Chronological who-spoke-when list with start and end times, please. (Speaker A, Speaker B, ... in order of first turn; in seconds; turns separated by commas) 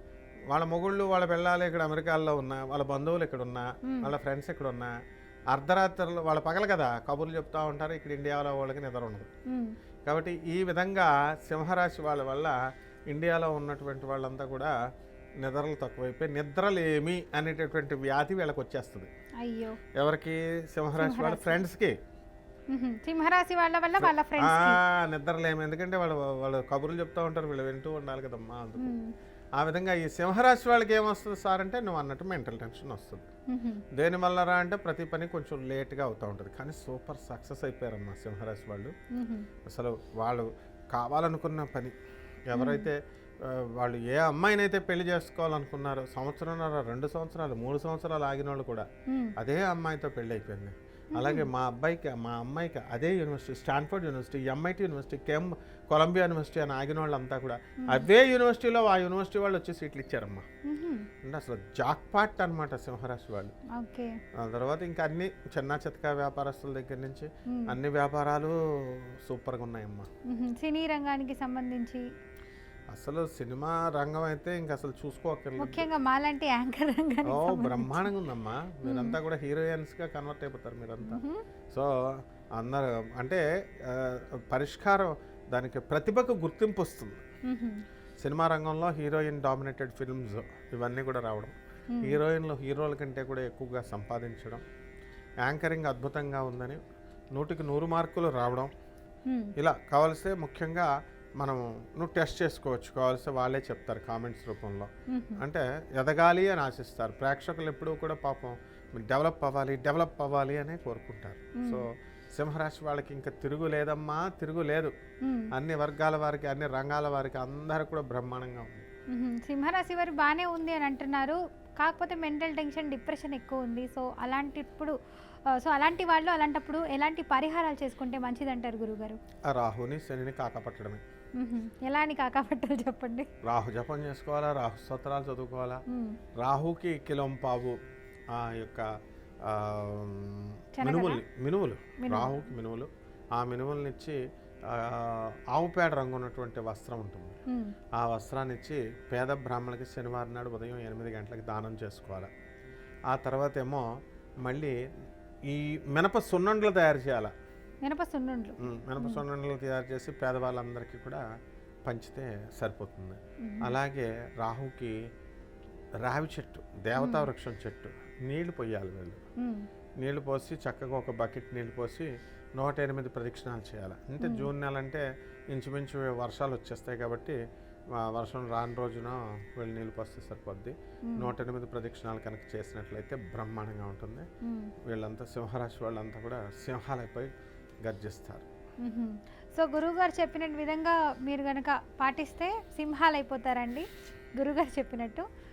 Speaker A: 0.5-4.9, Speaker B: 3.9-4.1, Speaker A: 5.5-9.3, Speaker A: 10.1-12.6, Speaker A: 13.1-14.7, Speaker A: 15.4-19.1, Speaker B: 19.4-19.8, Speaker A: 20.0-21.9, Speaker B: 21.0-21.6, Speaker B: 22.7-24.8, Speaker A: 24.0-28.9, Speaker B: 28.8-29.1, Speaker A: 29.6-33.3, Speaker B: 33.5-33.8, Speaker A: 33.9-38.9, Speaker B: 39.1-39.5, Speaker A: 39.7-42.0, Speaker A: 42.5-48.9, Speaker B: 42.5-42.9, Speaker B: 49.1-49.3, Speaker A: 49.4-60.5, Speaker B: 51.1-51.5, Speaker B: 60.7-61.1, Speaker A: 61.2-63.5, Speaker B: 63.8-64.2, Speaker A: 64.4-70.1, Speaker B: 67.5-67.8, Speaker B: 70.3-72.0, Speaker A: 72.9-75.9, Speaker B: 75.6-78.1, Speaker A: 77.3-81.2, Speaker B: 78.8-79.2, Speaker B: 81.0-81.4, Speaker A: 82.6-87.2, Speaker B: 87.5-87.8, Speaker A: 88.2-94.6, Speaker B: 91.9-92.2, Speaker A: 95.4-96.8, Speaker A: 97.3-98.7, Speaker A: 99.6-114.9, Speaker B: 105.1-105.4, Speaker B: 111.6-111.8, Speaker B: 115.2-115.5, Speaker A: 115.5-118.9, Speaker B: 119.1-124.9, Speaker B: 125.5-129.2, Speaker A: 129.5-131.0, Speaker B: 131.4-133.3, Speaker A: 133.4-135.8, Speaker B: 135.9-136.2, Speaker A: 136.4-137.8, Speaker A: 138.3-138.9, Speaker A: 139.4-144.2, Speaker B: 140.8-141.2, Speaker B: 142.0-142.5, Speaker A: 144.7-147.4, Speaker A: 148.0-152.3, Speaker A: 153.1-153.9, Speaker A: 154.4-154.7, Speaker A: 155.5-157.3, Speaker B: 157.8-159.2, Speaker A: 158.6-161.2, Speaker A: 161.9-164.9, Speaker B: 163.4-163.7, Speaker A: 166.0-169.2, Speaker B: 167.0-167.3, Speaker A: 170.0-177.4, Speaker B: 174.2-174.5, Speaker A: 178.0-184.2, Speaker B: 184.4-184.7, Speaker A: 184.9-187.3, Speaker A: 187.8-188.5, Speaker B: 188.8-193.9, Speaker B: 194.4-195.2